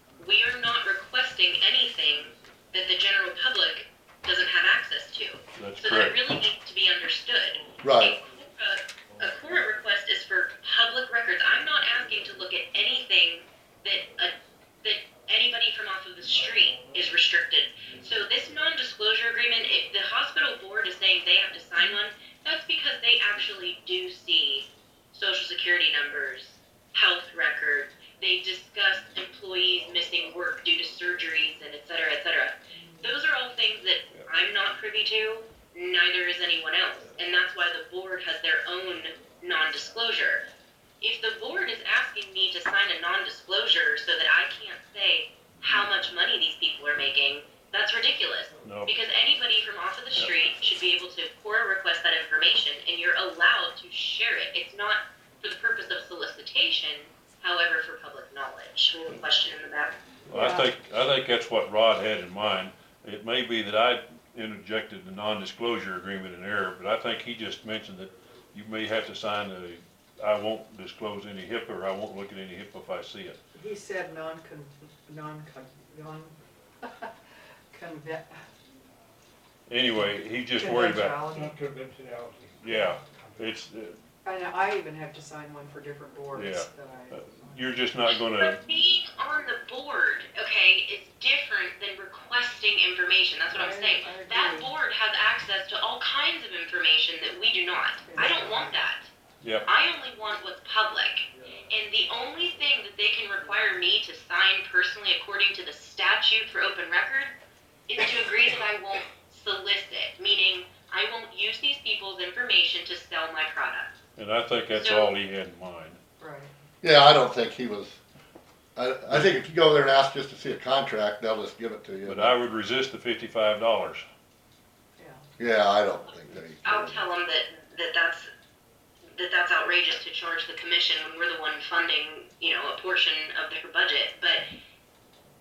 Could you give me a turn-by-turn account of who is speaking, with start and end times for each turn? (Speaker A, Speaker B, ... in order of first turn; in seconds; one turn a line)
Speaker A: 0.2-40.5
Speaker B: 5.6-6.2
Speaker C: 7.8-8.2
Speaker D: 32.8-33.1
Speaker A: 41.0-60.0
Speaker B: 48.6-48.9
Speaker B: 60.3-73.4
Speaker D: 60.3-60.7
Speaker D: 73.5-77.1
Speaker D: 77.7-78.4
Speaker B: 79.7-81.3
Speaker D: 80.5-81.6
Speaker E: 81.3-83.5
Speaker B: 82.6-84.0
Speaker D: 84.2-87.7
Speaker B: 86.3-88.6
Speaker A: 88.1-99.1
Speaker D: 93.5-94.7
Speaker D: 98.0-98.8
Speaker B: 99.4-99.7
Speaker A: 99.6-107.3
Speaker A: 107.9-114.0
Speaker B: 114.2-116.0
Speaker A: 114.7-115.2
Speaker D: 116.2-116.5
Speaker C: 116.8-118.0
Speaker C: 118.8-122.3
Speaker B: 122.1-124.0
Speaker D: 125.0-125.2
Speaker C: 125.4-127.0
Speaker A: 126.6-128.3
Speaker A: 129.2-134.5